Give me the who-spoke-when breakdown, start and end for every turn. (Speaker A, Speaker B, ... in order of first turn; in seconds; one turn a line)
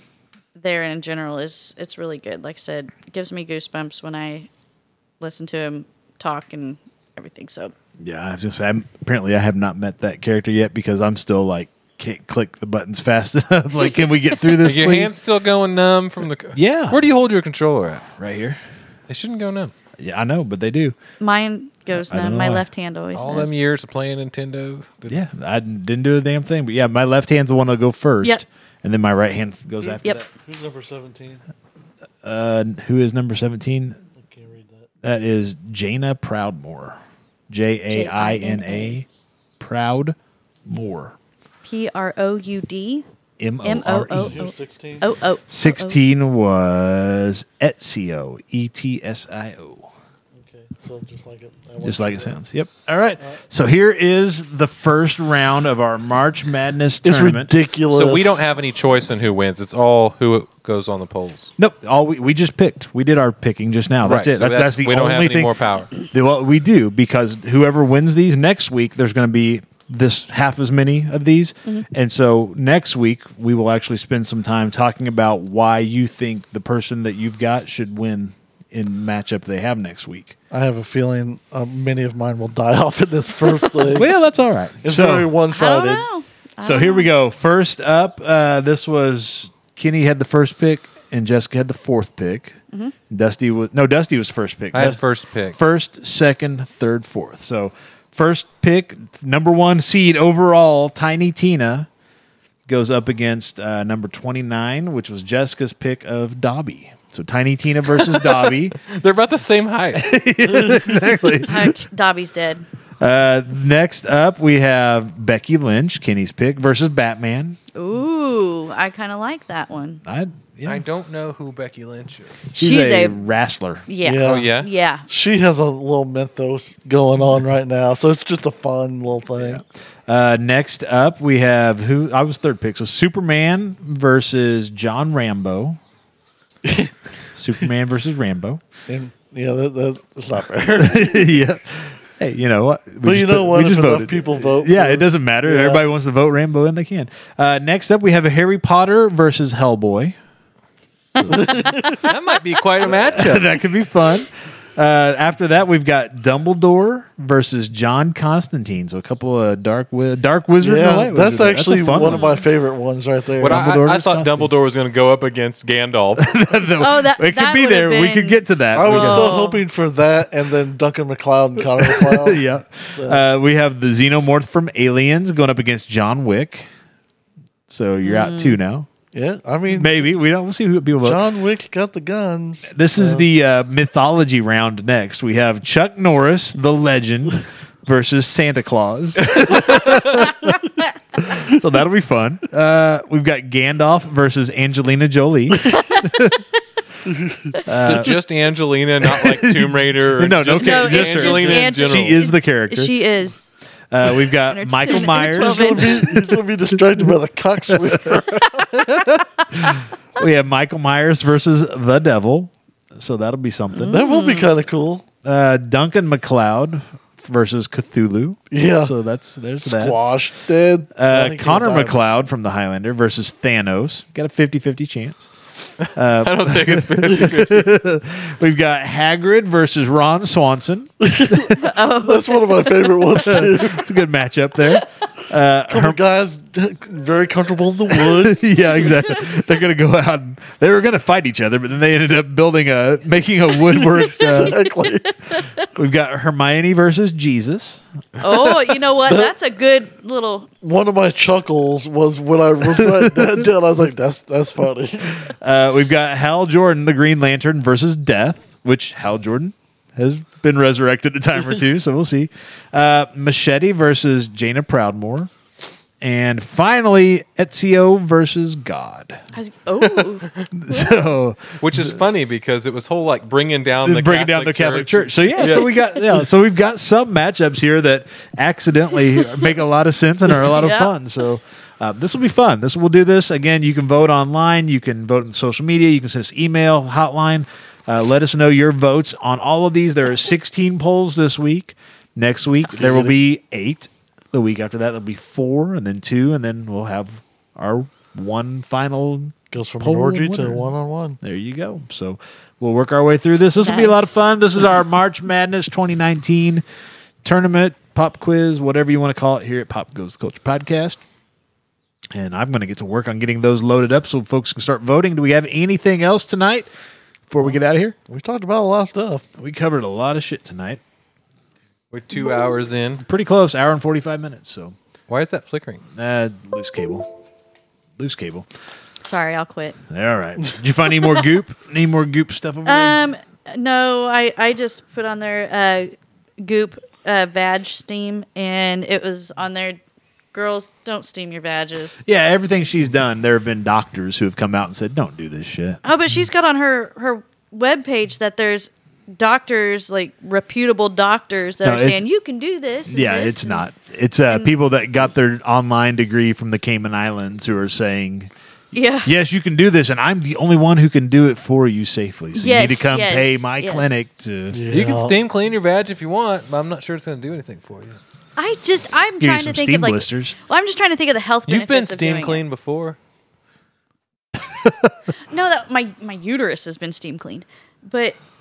Speaker A: 0.5-4.5
Speaker A: 5.2-7.7
Speaker B: 8.0-15.2
Speaker C: 14.6-18.1
Speaker B: 16.5-17.0
Speaker B: 18.1-18.6
Speaker C: 19.1-19.7
Speaker B: 20.0-20.9
Speaker A: 21.2-23.6
Speaker B: 21.9-22.6
Speaker C: 23.1-25.2
Speaker B: 25.1-30.3
Speaker D: 30.3-31.4
Speaker B: 32.2-34.0
Speaker D: 34.2-34.9
Speaker B: 35.0-37.0
Speaker B: 37.5-39.1
Speaker A: 37.9-39.0
Speaker B: 39.6-41.1
Speaker A: 41.6-43.0
Speaker B: 43.4-44.4
Speaker A: 43.6-46.0
Speaker D: 44.2-45.1
Speaker B: 45.5-49.9
Speaker D: 50.3-52.4
Speaker B: 51.8-57.5
Speaker D: 57.0-58.4
Speaker C: 57.9-61.5
Speaker B: 61.6-80.3
Speaker C: 64.0-65.9
Speaker D: 80.5-84.1
Speaker B: 83.9-85.3
Speaker D: 84.8-86.0
Speaker A: 85.5-87.1
Speaker B: 86.6-92.6
Speaker B: 93.1-95.0
Speaker C: 94.7-95.6
Speaker B: 95.5-101.9
Speaker B: 102.7-108.8
Speaker C: 108.8-110.2
Speaker B: 109.9-111.8
Speaker A: 111.4-112.6
Speaker B: 113.0-117.6
Speaker A: 117.7-120.0
Speaker B: 120.0-120.8
Speaker C: 120.7-122.5
Speaker A: 122.5-123.2
Speaker B: 122.5-123.8
Speaker A: 123.9-125.1
Speaker D: 124.0-124.5
Speaker C: 124.2-124.7
Speaker D: 125.1-129.6
Speaker B: 129.4-135.8
Speaker D: 136.6-136.9
Speaker B: 137.3-138.6
Speaker D: 138.9-141.3
Speaker B: 140.8-150.2
Speaker D: 143.0-145.8
Speaker B: 151.1-151.7
Speaker A: 151.3-152.1
Speaker D: 151.4-151.8
Speaker C: 151.7-153.6
Speaker B: 152.9-162.2
Speaker D: 160.6-163.6
Speaker A: 162.0-162.4
Speaker C: 163.4-166.3
Speaker B: 163.4-164.5
Speaker B: 166.2-169.3
Speaker A: 166.8-169.6
Speaker D: 168.7-173.2
Speaker B: 171.6-176.7
Speaker B: 177.7-178.9
Speaker A: 178.0-178.6
Speaker D: 179.1-179.9
Speaker B: 179.7-181.2
Speaker D: 181.0-183.2
Speaker B: 182.7-190.6
Speaker C: 189.3-190.0
Speaker B: 191.1-196.4
Speaker B: 197.6-198.2
Speaker C: 197.8-202.2
Speaker B: 199.1-202.9
Speaker A: 200.6-203.4
Speaker B: 203.9-207.1
Speaker A: 204.2-206.1
Speaker D: 204.9-209.0
Speaker B: 207.7-214.0
Speaker A: 213.8-214.5
Speaker D: 213.8-215.0
Speaker B: 215.2-220.0
Speaker D: 218.5-218.9
Speaker D: 219.6-221.9
Speaker B: 220.9-225.3
Speaker C: 225.8-227.8
Speaker B: 225.9-231.5
Speaker D: 231.1-233.9
Speaker A: 231.6-233.2
Speaker B: 233.2-236.0
Speaker D: 235.7-238.5
Speaker B: 238.0-244.6
Speaker D: 244.0-245.1
Speaker A: 244.2-245.6
Speaker B: 245.7-248.5
Speaker A: 248.2-250.5
Speaker D: 249.0-249.3
Speaker D: 250.6-255.3
Speaker B: 252.6-253.4
Speaker B: 255.2-265.3
Speaker B: 266.0-269.2
Speaker A: 269.3-270.3
Speaker C: 269.9-270.5
Speaker B: 270.5-271.9
Speaker C: 271.6-275.7
Speaker B: 273.8-300.7
Speaker A: 275.4-275.6
Speaker A: 280.5-280.9
Speaker D: 292.7-293.1
Speaker D: 299.5-301.2
Speaker B: 301.2-306.6
Speaker A: 303.6-304.2
Speaker B: 307.2-311.0
Speaker B: 312.1-316.7
Speaker B: 317.3-317.9
Speaker D: 318.1-319.2
Speaker B: 319.4-320.8
Speaker C: 321.9-323.0
Speaker B: 323.0-324.7
Speaker C: 325.1-325.8
Speaker B: 325.9-327.1
Speaker B: 328.0-328.5
Speaker A: 329.0-329.8
Speaker B: 329.9-333.0
Speaker A: 332.6-339.8
Speaker A: 340.3-342.0
Speaker B: 342.0-345.8
Speaker A: 345.8-353.7
Speaker B: 351.6-352.0
Speaker B: 352.9-358.3
Speaker A: 358.7-359.1
Speaker B: 359.0-364.6
Speaker A: 362.3-363.9
Speaker D: 364.5-365.1
Speaker C: 364.7-368.0
Speaker A: 368.4-372.4
Speaker B: 369.2-370.4
Speaker C: 371.5-373.0
Speaker B: 374.4-374.9
Speaker A: 375.3-378.2